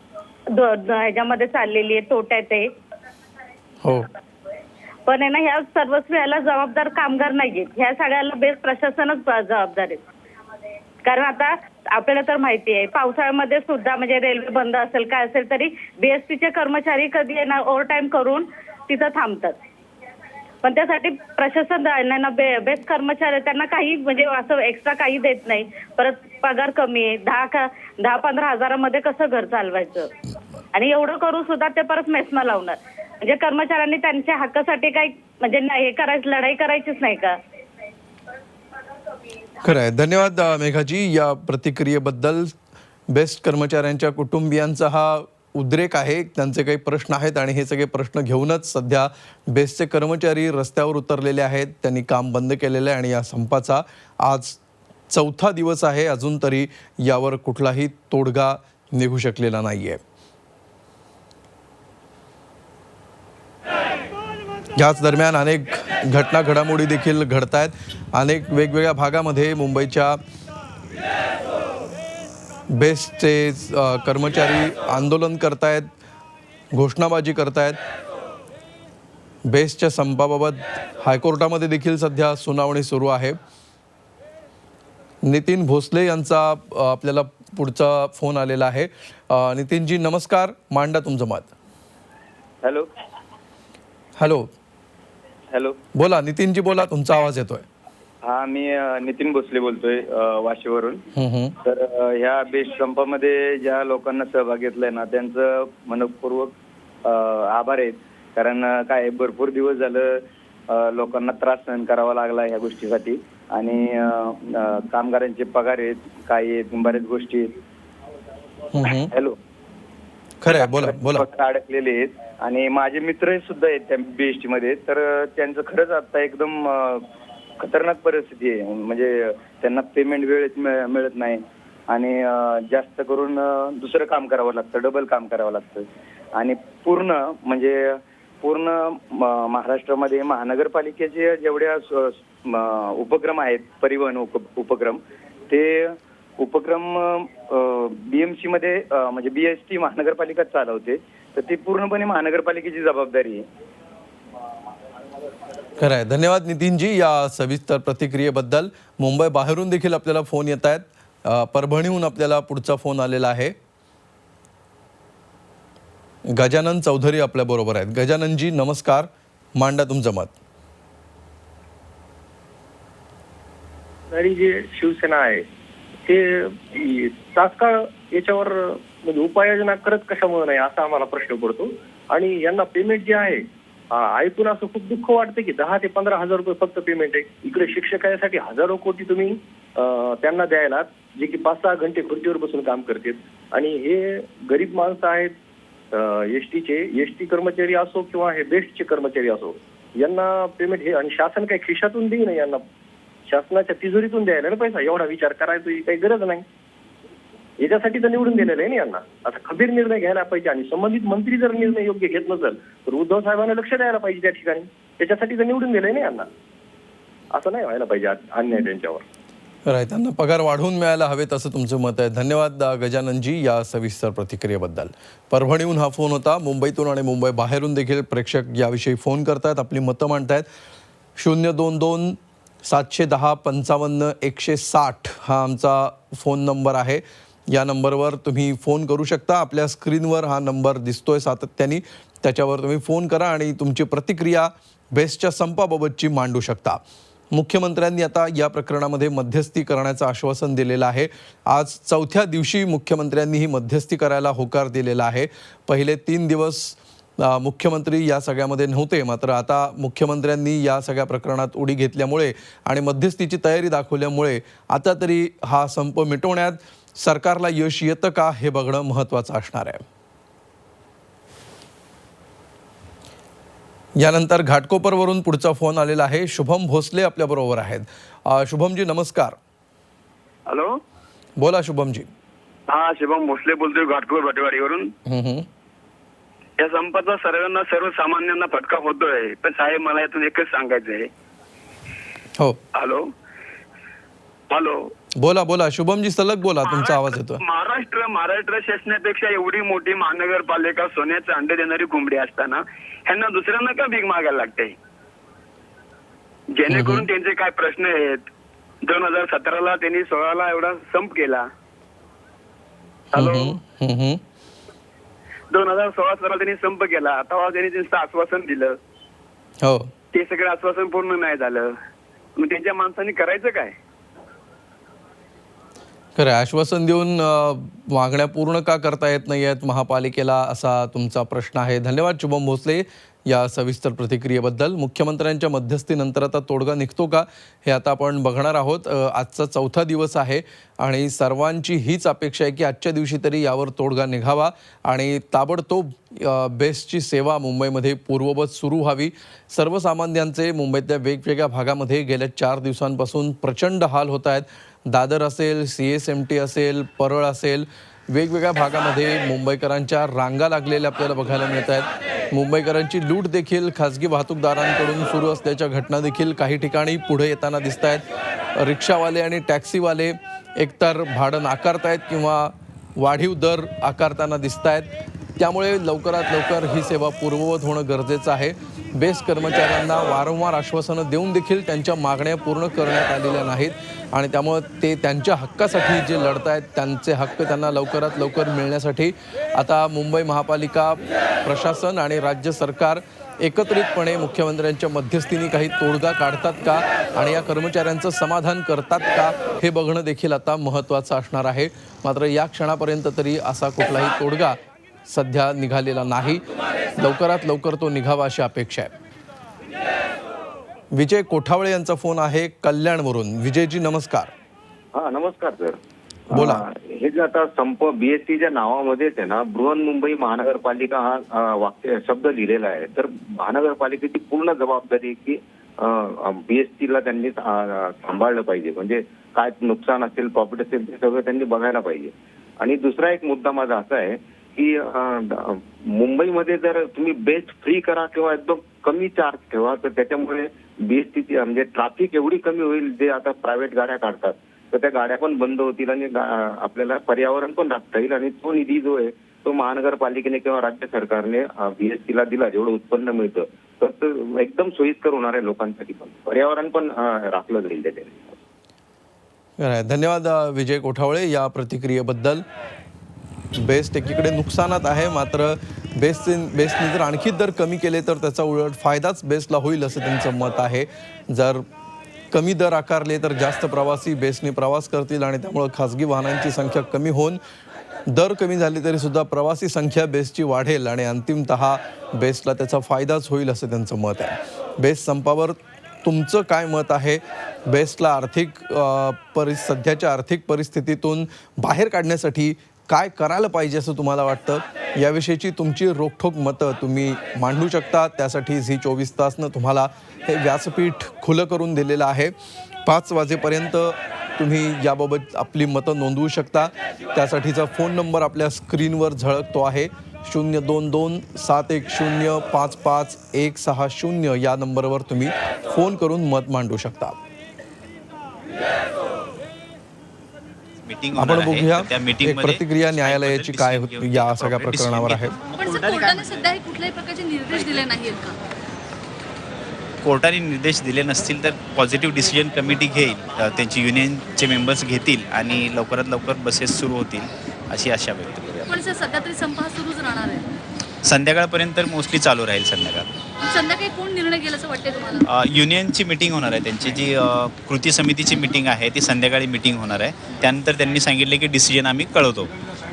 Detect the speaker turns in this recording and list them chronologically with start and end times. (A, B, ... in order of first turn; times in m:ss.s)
0:00.5-0:02.7 A
0:03.8-0:04.1 B
0:05.1-0:10.0 A
0:11.0-0:19.6 A
0:20.6-0:30.1 A
0:30.7-0:37.4 A
0:39.6-0:42.6 B
0:43.1-0:54.6 B
0:55.1-1:00.0 B
1:04.8-1:10.2 B
1:12.7-1:15.9 B
1:16.7-1:17.8 B
1:19.5-1:23.4 B
1:25.2-1:31.5 B
1:32.6-1:32.9 C
1:34.2-1:34.5 B
1:35.5-1:35.8 C
1:36.0-1:37.7 B
1:38.2-1:41.0 C
1:41.2-1:41.5 B
1:41.6-1:57.6 C
1:58.7-1:59.1 B
1:59.0-1:59.4 C
2:00.4-2:01.3 B
2:00.5-2:07.1 C
2:07.6-2:33.5 C
2:35.8-2:43.6 B
2:46.3-2:50.4 B
2:54.1-2:55.5 D
2:56.1-3:15.4 D
3:15.9-3:22.6 D
3:23.3-3:26.5 D
3:27.6-3:36.3 D
3:37.3-3:39.0 D
3:39.7-3:50.5 B
3:51.2-4:06.8 B
4:07.3-4:29.8 B
4:34.0-4:39.4 B
4:40.5-4:40.7 E
4:41.4-4:42.1 B
4:42.7-4:44.9 E
4:45.1-4:45.5 B
4:46.6-4:51.1 E
4:52.8-4:53.1 E
4:54.5-4:54.9 E
4:55.2-4:57.4 B
4:56.7-5:04.8 E
5:06.6-5:08.3 E
5:06.7-5:07.1 B
5:08.9-5:11.5 E
5:13.1-5:14.2 B
5:13.2-5:13.6 E
5:15.5-5:18.8 E
5:19.6-5:19.9 B
5:20.1-5:21.8 E
5:22.4-5:23.8 E
5:26.2-6:08.0 B
6:08.6-6:46.4 B
6:47.0-6:48.9 B
6:50.9-6:54.3 B
6:55.0-6:55.8 F
6:56.3-7:38.4 F
6:56.3-6:56.6 B
7:39.6-7:42.4 B
7:43.6-7:51.6 B
7:52.3-7:57.4 B
7:58.1-8:37.2 B
8:40.8-8:45.3 G
8:41.2-8:45.3 B
8:45.5-8:48.4 H
8:50.0-8:58.7 G
8:58.7-9:00.5 H
9:01.0-9:03.1 G
9:03.4-9:05.2 H
9:05.3-9:12.5 G